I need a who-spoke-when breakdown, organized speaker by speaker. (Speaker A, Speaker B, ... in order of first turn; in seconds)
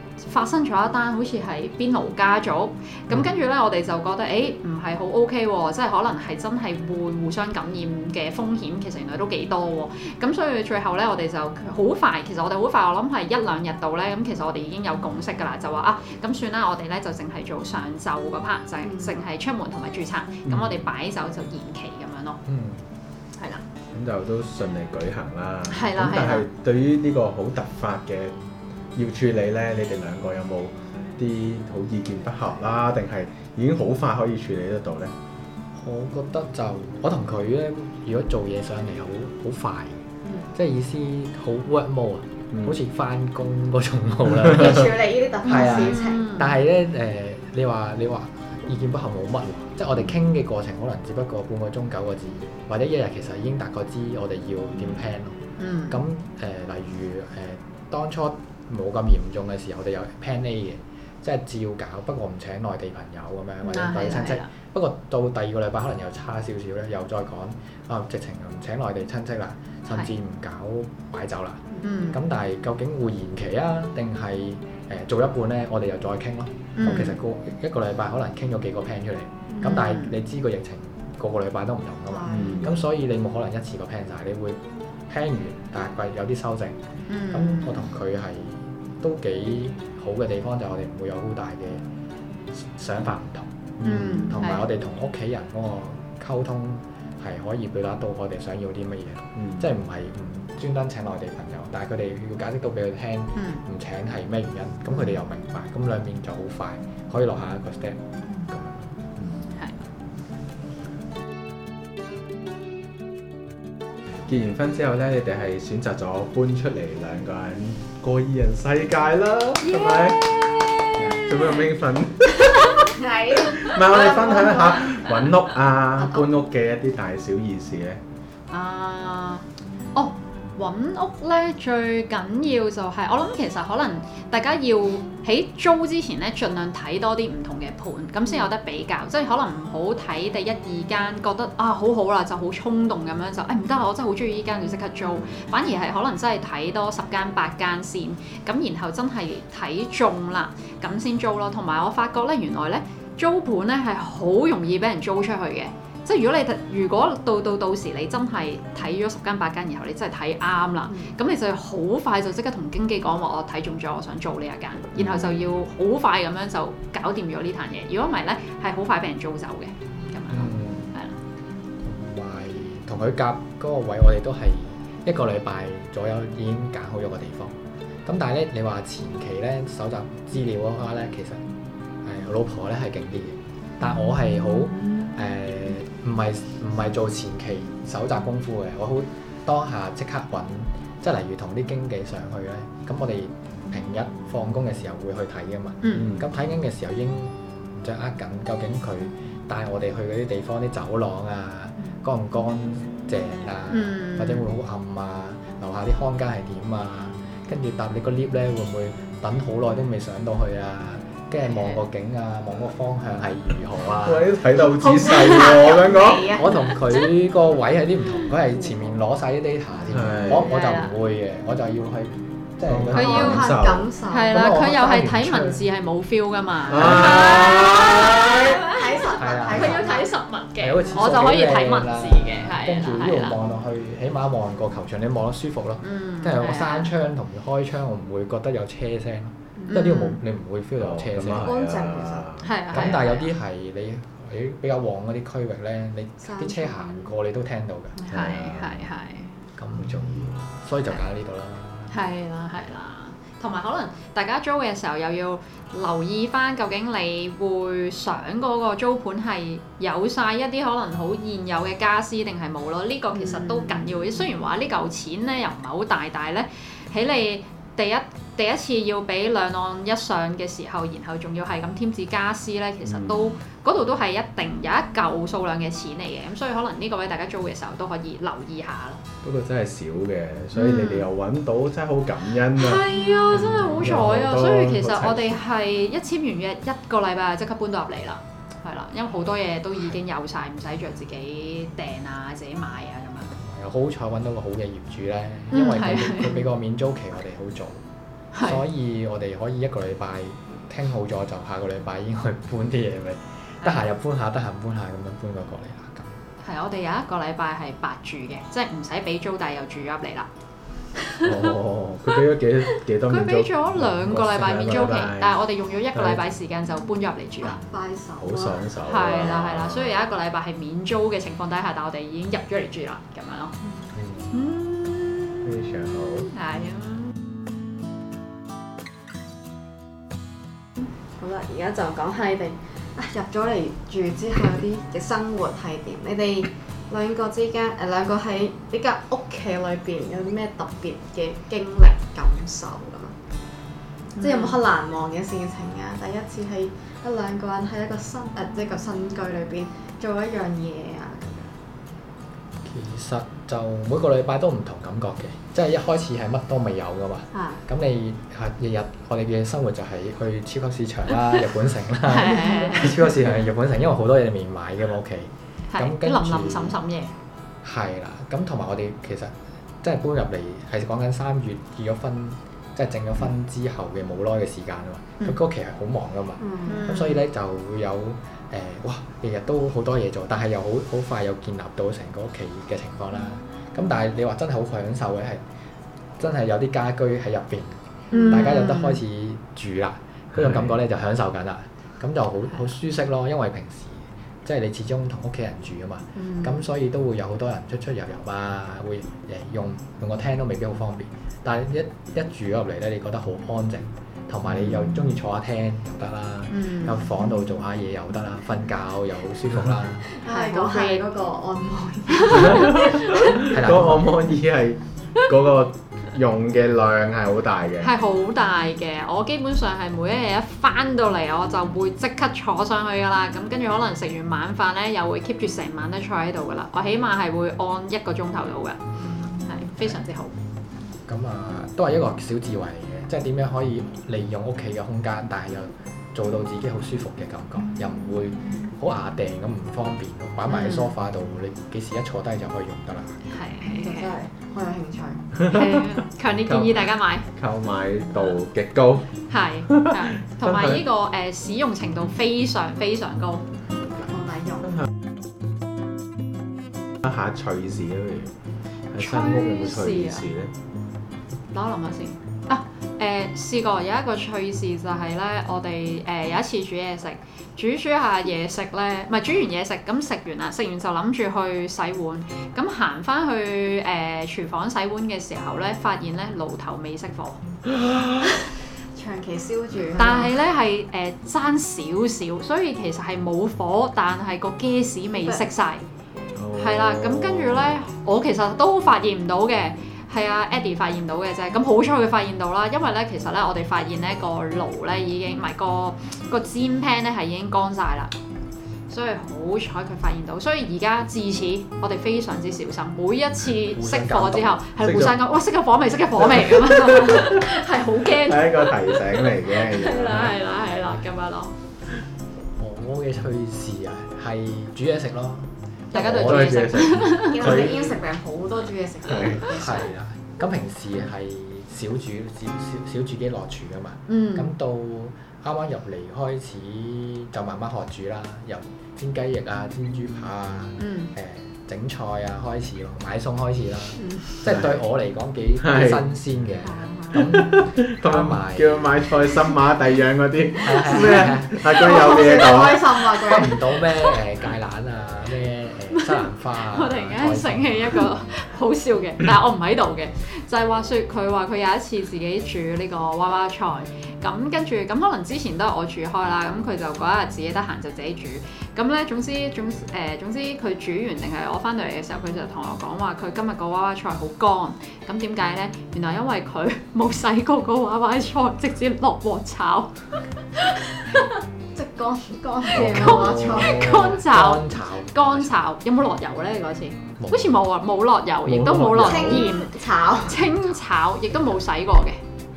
Speaker A: 0.2-22.4, 23.4-23.6, 25.7-26.5, 45.5-46.5, 55.6-56.0, 63.6-64.5, 71.8-72.2, 76.8-77.2, 79.6-80.1, 87.1-87.9, 93.8-94.7, 103.3-103.6, 109.5-109.8, 119.6-121.7, 122.4-122.8, 128.5-129.4, 129.9-171.2, 195.8-196.1, 203.7-204.5, 220.3-220.9, 222.9-223.5, 224.1-233.4, 235.8-236.9, 239.7-240.2, 242.4-243.3, 248.0-249.3, 251.9-279.0, 280.5-281.1, 282.6-293.3, 295.5-296.5, 298.3-298.6, 303.6-303.9, 306.4-310.3, 313.1-317.6, 318.8-323.6, 324.3-325.4, 326.3-327.1, 344.1-344.6, 362.1-363.0, 365.7-367.1, 376.6-377.2, 388.1-389.0, 396.2-396.5, 406.5-407.0, 410.2-411.0, 412.1-413.3, 417.8-428.8, 429.4-430.4, 440.5-440.9, 443.3-444.1, 445.4-447.3, 449.3-453.4, 459.0-460.3, 461.5-477.4, 479.9-485.8, 486.5-498.1, 498.9-511.5, 515.9-517.6, 524.1-524.5, 530.8-531.1, 545.9-569.9, 570.9-571.3, 572.7-582.2
Speaker B: 18.8-19.2, 44.5-46.3, 82.1-82.7, 122.9-124.8, 126.0-126.2, 160.9-161.2, 214.9-216.7, 223.0-224.4, 228.4-230.1, 241.3-242.3, 246.2-247.1, 263.2-263.8, 317.4-318.7, 331.2-343.1, 344.2-351.5, 357.3-357.6, 376.4-376.8, 410.1-413.3, 443.6-445.3, 454.1-454.7, 478.9-480.3, 517.3-519.9, 536.6-537.2, 541.2-543.6, 571.7-574.1, 579.0-580.4
Speaker C: 20.5-20.8, 23.9-28.3, 28.9-35.1, 42.5-42.8, 82.3-82.7, 99.3-99.6, 114.3-120.4, 120.9-122.8, 123.5-128.0, 195.9-196.3, 214.0-216.3, 219.9-220.5, 222.7-223.9, 226.7-228.4, 240.8-242.5, 248.1-248.8, 249.8-250.3, 272.9-273.2, 279.2-285.4, 311.2-315.4, 315.9-316.2, 318.2-319.9, 325.4-326.3, 390.3-390.6, 412.3-417.9, 446.5-449.1, 449.7-450.8, 457.0-458.3, 458.9-460.5, 486.3-487.7, 504.8-505.1, 506.4-507.4, 508.1-510.4, 516.0-518.0, 519.0-519.5, 534.4-534.8, 535.6-536.0, 537.1-543.1, 573.0-574.0, 578.5-579.5
Speaker D: 22.4-22.8, 35.8-40.0, 40.5-86.8, 87.3-91.8, 92.5-108.0, 108.5-108.8, 170.3-170.9, 171.8-181.4, 182.0-214.3, 216.3-223.5, 224.3-225.6, 226.8-227.3, 229.2-230.0, 230.6-241.5, 242.7-248.0, 249.6-251.9, 293.4-297.8, 298.4-306.2, 323.9-324.3, 352.6-366.8, 367.6-385.4, 386.2-410.1, 413.4-414.3, 431.1-443.2, 503.7-504.6, 512.6-517.2, 519.5-539.0, 540.6-542.1, 543.2-548.1, 572.7-575.5, 577.2-577.5